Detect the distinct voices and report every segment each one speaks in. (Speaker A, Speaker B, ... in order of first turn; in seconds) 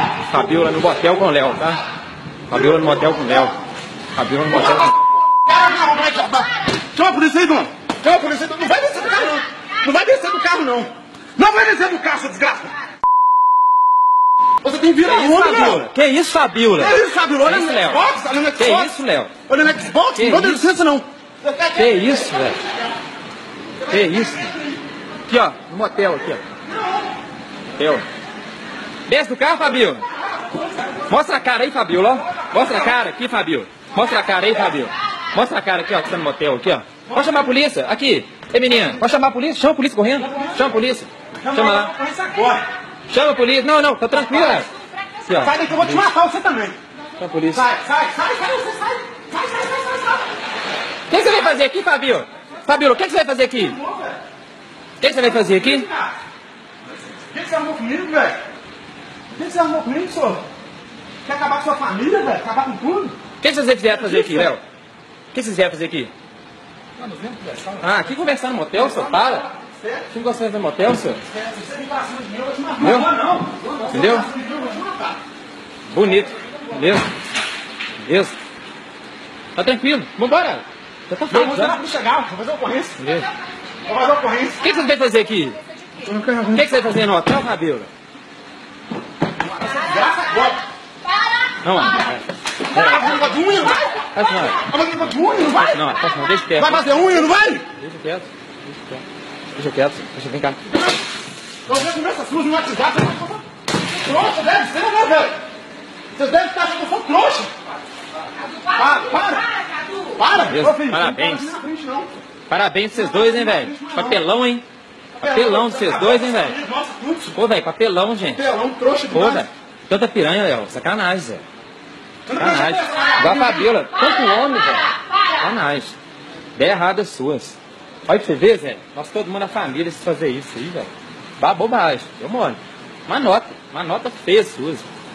Speaker A: 0.2-1.8, 2.5-3.6, 4.1-4.9, 15.0-18.0, 18.6-19.3, 20.1-20.6, 21.7-22.6, 23.9-24.6, 25.3-26.4, 27.8-28.0, 29.1-30.0, 31.1-41.9, 43.1-44.7, 45.2-45.5, 47.2-47.7, 51.1-53.8, 55.0-55.9, 63.4-64.6, 65.3-66.1, 67.8-69.5, 70.1-71.2, 72.8-73.1, 73.9-74.3, 75.9-77.1, 78.0-78.3, 79.5-81.8, 83.0-83.3, 84.6-85.6, 86.5-87.9, 91.6-93.2, 94.1-94.6, 95.7-99.0, 99.5-100.6, 110.5-111.5, 112.5-114.6, 115.2-116.6, 117.3-118.4, 119.1-121.4, 122.3-125.9, 126.5-134.9
Speaker B: 4.5-4.8, 5.5-12.8, 14.6-15.9, 16.7-18.9, 19.5-22.6, 23.9-24.8, 37.1-37.5, 40.2-40.6, 41.4-42.6, 45.4-46.8, 47.5-50.3, 53.5-54.2, 55.0-56.1, 57.3-58.4, 59.3-60.4, 61.2-63.2, 63.9-64.5, 67.0-68.1, 68.7-70.1, 71.2-75.2, 81.3-83.0, 83.8-84.7, 86.0-86.7, 89.5-90.6, 92.7-93.9, 94.5-95.8, 96.5-97.7, 101.7-105.4, 106.1-107.5, 108.7-109.5, 110.1-112.1, 112.9-114.2, 115.2-117.4, 118.2-119.5, 122.3-123.7